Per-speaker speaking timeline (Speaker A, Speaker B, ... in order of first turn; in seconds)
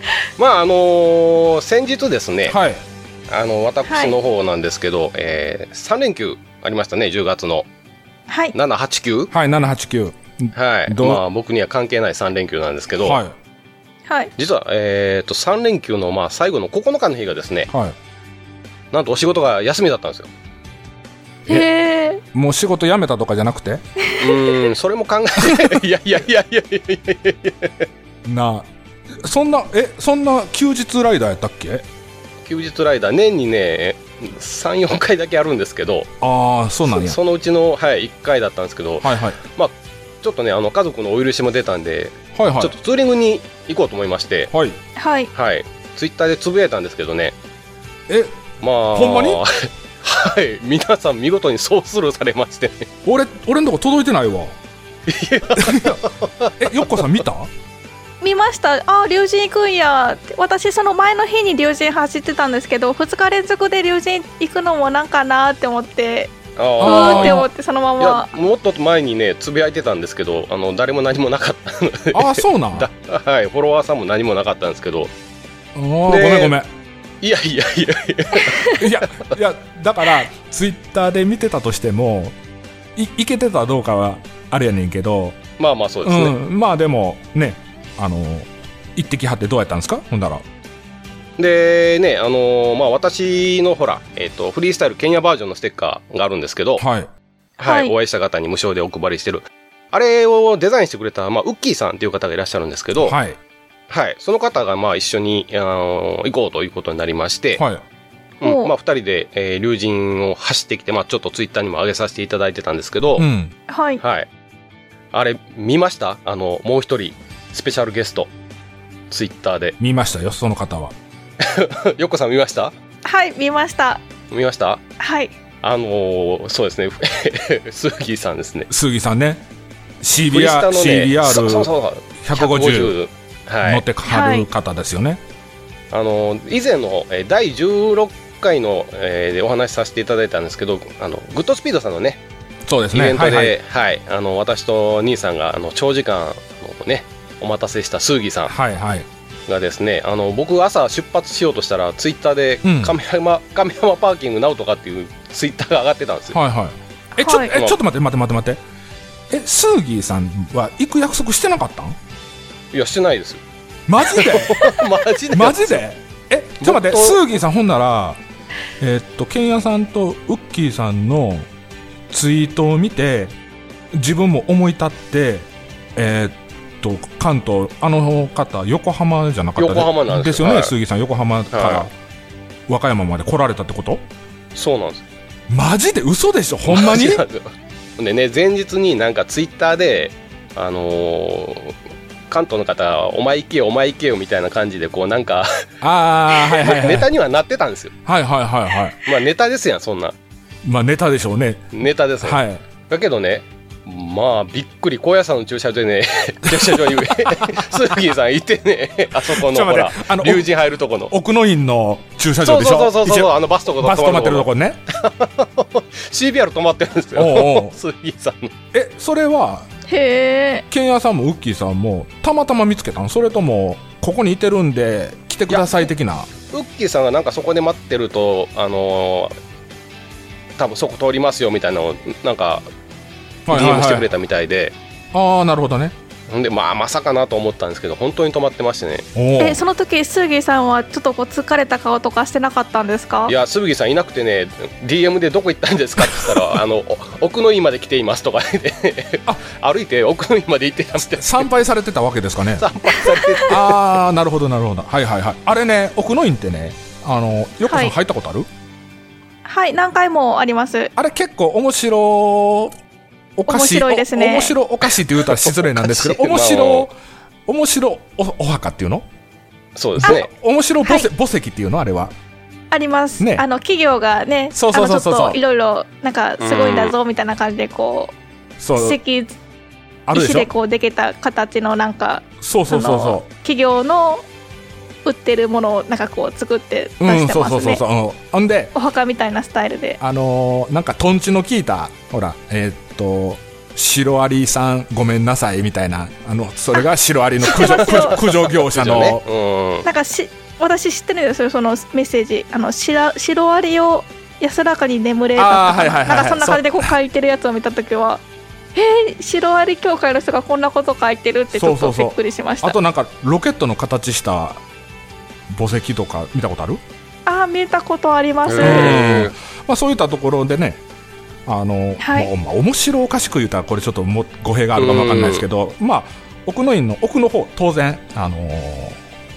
Speaker A: 0.4-2.6, 3.3-7.7, 8.5-9.3, 10.5-13.2, 14.4-17.7, 18.9-20.3, 24.2-27.9, 32.5-36.1, 36.8-44.5, 45.3-47.3, 48.6-52.9, 55.1-57.0, 66.6-67.5, 68.0-75.1, 76.1-76.6, 77.2-79.3, 85.6-86.3, 91.4-96.8, 97.6-103.2, 103.9-107.6, 108.4-113.2, 114.0-114.3, 115.1-118.3, 119.1-119.7, 121.4-122.7, 124.3-124.8, 125.6-128.7, 130.3-133.8, 135.9-142.2, 142.9-148.5, 149.5-156.4, 162.7-163.4, 164.1-165.8, 166.6-167.2, 179.6-180.7, 181.5-181.9, 184.5-185.0, 186.7-191.8, 192.3-195.6, 196.3-197.9, 199.0-200.1, 201.7-211.1, 212.4-218.5, 225.5-225.8, 226.5-229.3, 230.6-232.7, 233.5-234.7, 236.3-239.1, 243.3-251.5, 252.6-253.8, 265.2-266.9, 269.8-270.3, 276.4-276.9, 297.6-299.9, 318.4-319.3, 324.8-325.4
Speaker B: 2.5-2.8, 9.3-11.2, 13.0-13.3, 17.7-17.9, 22.3-23.8, 25.4-25.8, 28.2-31.8, 36.2-37.2, 39.0-39.4, 42.3-42.7, 44.5-44.8, 48.1-48.4, 48.9-49.4, 53.0-54.5, 55.5-56.0, 56.6-57.5, 66.8-67.5, 72.1-72.9, 75.7-76.7, 78.8-82.3, 83.0-85.4, 86.0-90.4, 96.8-97.1, 103.0-103.4, 107.6-107.8, 113.2-113.5, 119.8-120.9, 128.7-129.4, 130.0-132.9, 133.6-135.2, 142.7-143.5, 148.5-149.1, 152.6-152.9, 156.3-158.6, 159.3-161.9, 163.9-164.8, 165.3-168.2, 168.8-171.5, 172.1-173.3, 173.9-181.9, 182.7-184.0, 185.5-187.2, 195.8-197.1, 198.1-199.0, 200.6-201.7, 202.2-202.6, 206.5-207.8, 209.3-210.5, 211.1-214.8, 217.2-217.7, 218.7-219.7, 220.7-226.3, 233.4-234.1, 235.1-235.9, 239.1-239.6, 251.2-252.7, 253.4-258.5, 260.9-262.7, 263.4-266.9, 267.4-269.1, 270.0-272.1, 273.2-273.4, 274.5-275.4, 278.6-279.0, 280.1-280.5, 282.4-283.2, 287.0-288.7, 290.0-299.2, 305.4-306.9, 311.5-314.6, 315.5-316.8, 318.6-320.8, 321.4-329.0
Speaker C: 3.8-4.1, 8.3-8.5, 21.5-22.2, 24.1-24.4, 45.0-45.3, 58.2-66.3, 66.8-68.3, 97.6-97.9, 108.4-108.7, 113.7-114.0, 123.0-124.0, 125.0-125.3, 134.1-134.4, 157.2-157.5, 219.9-220.6, 239.4-243.3, 257.6-257.9, 259.4-260.9, 263.5-264.6, 272.7-278.1, 278.8-279.3, 280.1-284.2, 285.0-287.8, 288.7-290.0, 297.4-298.2, 299.8-308.2, 308.7-312.8, 317.2-319.0, 322.0-322.3